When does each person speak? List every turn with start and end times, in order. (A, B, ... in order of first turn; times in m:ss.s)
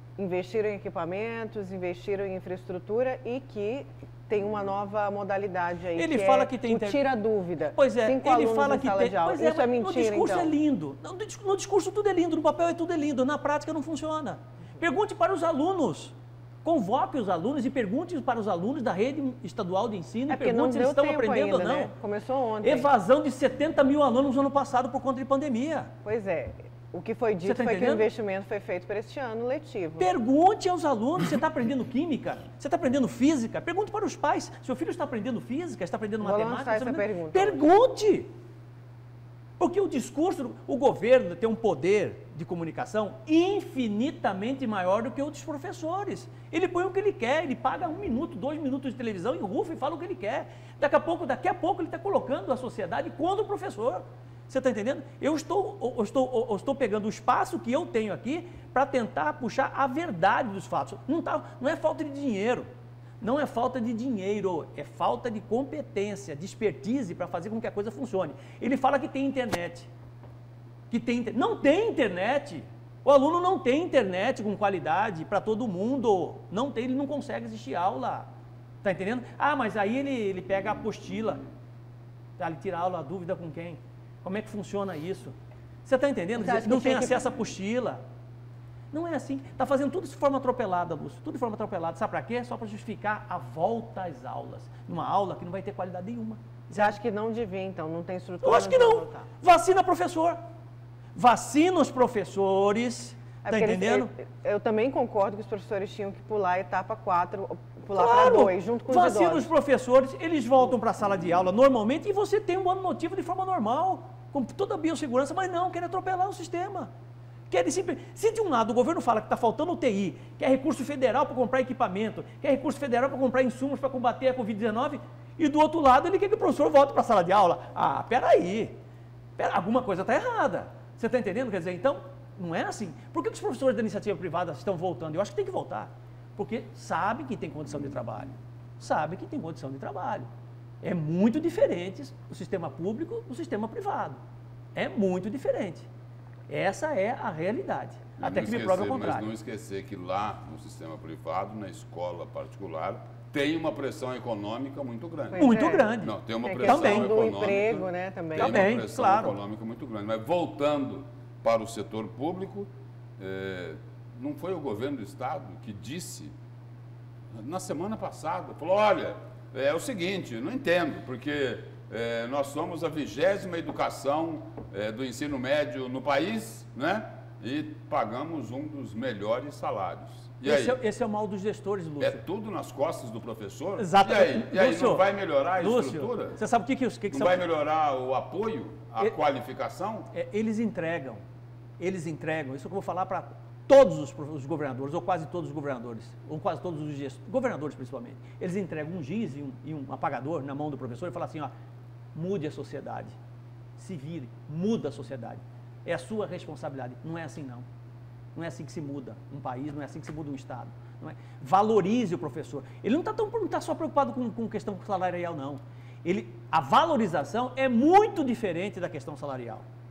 0:00.2-0:10.6 A
0:05.9-0:07.0 B
0:07.6-0:22.0 B
0:20.3-0:22.9 A
0:22.6-0:25.9 B
0:26.0-0:30.2 A
0:27.4-0:28.1 B
0:30.0-0:38.3 B
0:36.2-0:37.7 A
0:39.6-1:02.7 B
1:03.2-1:09.9 B
1:10.9-1:18.3 B
1:18.8-1:21.4 B
1:22.4-1:25.3 B
1:25.8-1:28.0 B
1:26.4-1:27.2 A
1:28.9-1:36.9 B
1:36.7-1:39.3 A
1:38.4-1:40.4 B
1:41.2-1:44.1 B
1:43.4-1:49.6 A
1:47.9-1:56.9 B
1:57.5-2:08.7 B
2:09.4-2:20.3 B
2:20.8-2:24.2 B
2:24.8-2:25.9 B
2:26.5-2:29.3 B
2:28.2-2:35.5 C
2:35.3-2:38.7 A
2:35.4-2:37.2 B
2:36.0-2:46.3 C
2:38.4-2:39.4 B
2:47.3-3:00.8 C
3:00.4-3:02.2 B
3:02.0-3:06.4 C
3:03.8-3:07.4 B
3:07.1-3:10.1 C
3:10.1-3:11.2 B
3:11.8-3:21.5 B
3:22.2-3:23.2 B
3:23.8-3:27.7 B
3:28.4-3:39.7 B